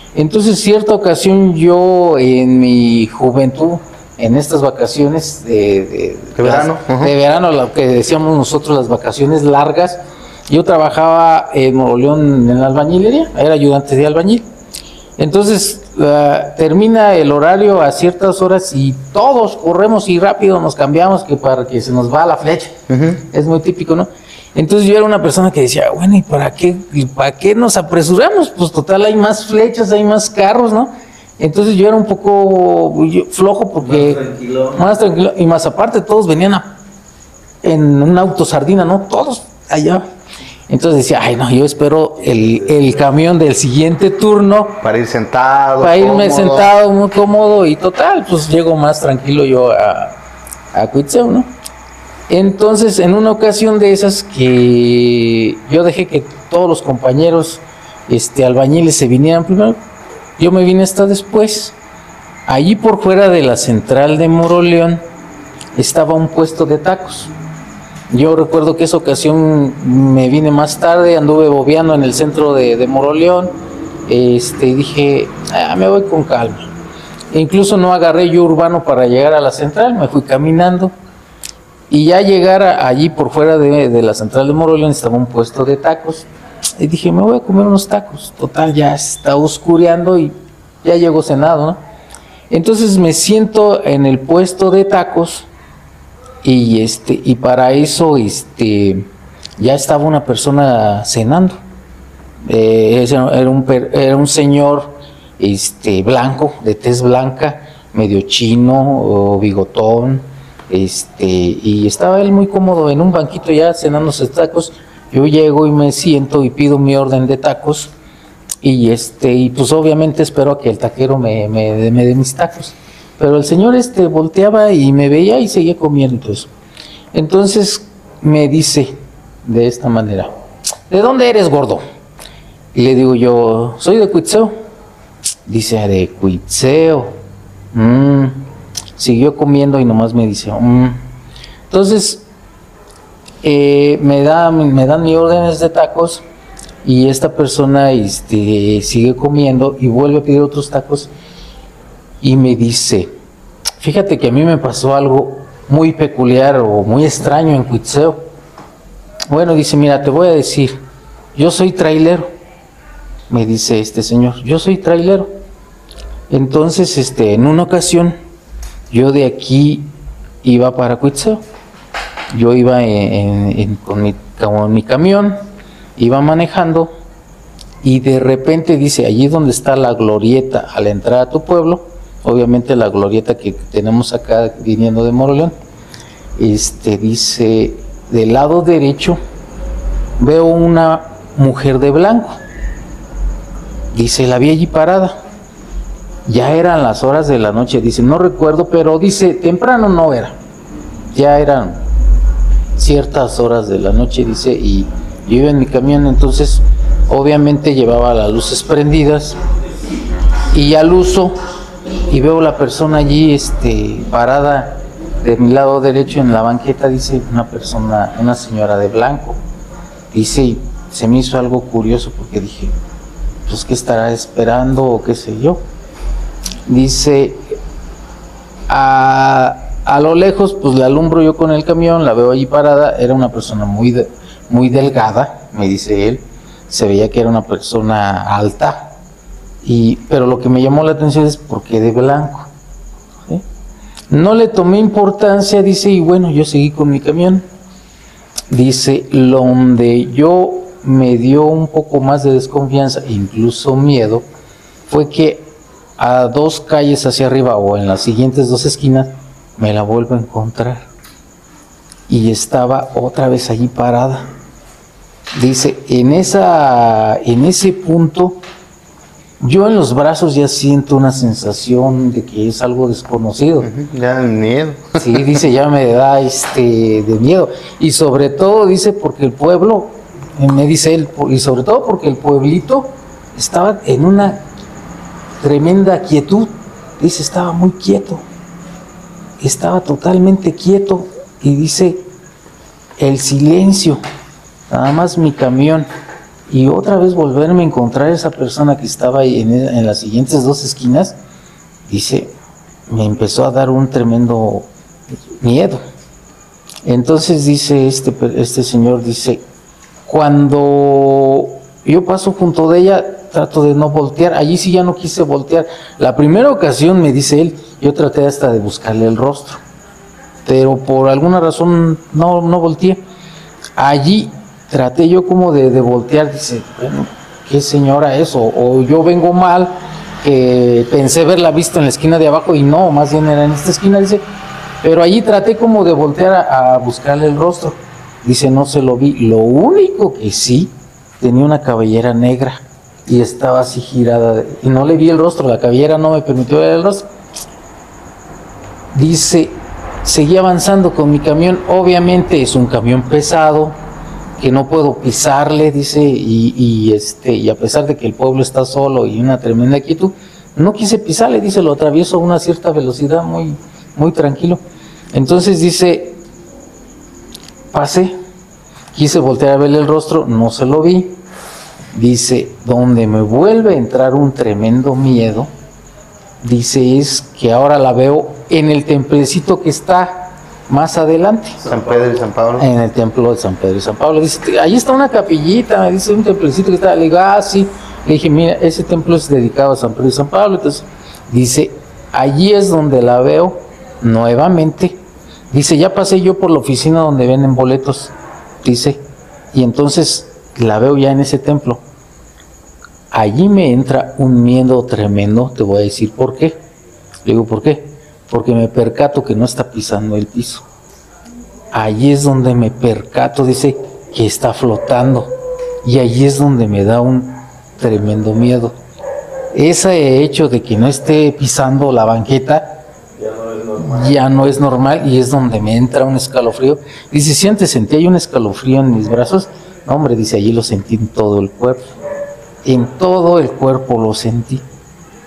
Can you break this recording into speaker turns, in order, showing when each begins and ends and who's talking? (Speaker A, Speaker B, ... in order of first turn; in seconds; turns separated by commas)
Speaker A: 0.1-14.4, Speaker B: 6.4-7.1, Speaker A: 15.2-22.8, Speaker B: 22.9-23.2, Speaker A: 23.3-34.2, Speaker C: 33.8-34.8, Speaker A: 34.8-36.8, Speaker A: 37.6-40.1, Speaker A: 40.7-44.8, Speaker B: 44.8-46.7, Speaker A: 45.8-50.1, Speaker A: 50.7-51.5, Speaker A: 52.3-59.8, Speaker A: 60.4-61.8, Speaker A: 62.5-65.0, Speaker A: 65.8-67.3, Speaker A: 68.1-73.5, Speaker A: 74.1-76.7, Speaker A: 77.3-80.9, Speaker A: 81.9-86.3, Speaker A: 86.8-91.8, Speaker A: 92.5-95.5, Speaker A: 96.4-99.1, Speaker A: 99.6-101.6, Speaker A: 102.5-117.9, Speaker A: 118.6-126.5, Speaker A: 127.1-130.3, Speaker A: 130.9-131.8, Speaker A: 132.7-134.6, Speaker A: 135.5-137.2, Speaker A: 137.7-138.4, Speaker A: 139.0-141.0, Speaker A: 141.7-142.2, Speaker A: 143.4-146.2, Speaker A: 146.8-151.1, Speaker A: 152.2-153.1, Speaker A: 153.8-158.2, Speaker A: 159.3-160.8, Speaker A: 161.3-162.3, Speaker A: 163.3-165.3, Speaker A: 166.3-168.2, Speaker A: 168.9-169.9, Speaker A: 170.4-171.4, Speaker A: 172.3-175.4, Speaker A: 176.0-176.9, Speaker A: 177.8-185.6, Speaker A: 186.4-189.2, Speaker A: 190.2-192.4, Speaker A: 193.9-195.2, Speaker A: 196.3-200.4, Speaker A: 201.1-201.8, Speaker A: 202.8-209.4, Speaker A: 210.5-211.4, Speaker A: 212.1-219.4, Speaker A: 220.1-222.8, Speaker A: 223.5-225.6, Speaker A: 226.7-227.6, Speaker A: 228.7-238.9, Speaker A: 239.6-242.5, Speaker A: 244.1-247.5, Speaker A: 248.5-254.2, Speaker A: 254.9-260.9, Speaker A: 262.1-264.3, Speaker A: 265.4-268.4, Speaker A: 269.4-273.7, Speaker B: 273.6-275.4, Speaker A: 275.0-284.4, Speaker A: 285.4-288.2, Speaker A: 289.4-292.1, Speaker A: 293.0-294.0, Speaker A: 294.7-295.9, Speaker A: 296.5-301.2, Speaker A: 301.9-302.3, Speaker A: 302.9-304.7, Speaker A: 305.4-305.8, Speaker A: 306.9-309.4, Speaker A: 310.1-319.6, Speaker A: 320.4-323.0, Speaker A: 323.8-334.2, Speaker A: 334.8-347.1, Speaker A: 348.9-353.8, Speaker A: 354.4-364.6, Speaker A: 365.1-366.2, Speaker A: 367.7-368.2, Speaker A: 368.9-371.2, Speaker A: 371.9-375.5, Speaker A: 376.4-381.6, Speaker C: 381.6-382.2, Speaker B: 381.7-382.7, Speaker A: 382.6-395.0, Speaker A: 395.5-399.0, Speaker A: 399.5-401.8, Speaker A: 403.1-406.6, Speaker A: 407.2-410.6, Speaker A: 411.7-415.3, Speaker A: 415.8-418.8, Speaker A: 419.5-422.8, Speaker C: 423.2-424.4, Speaker A: 423.8-431.9, Speaker A: 432.6-434.6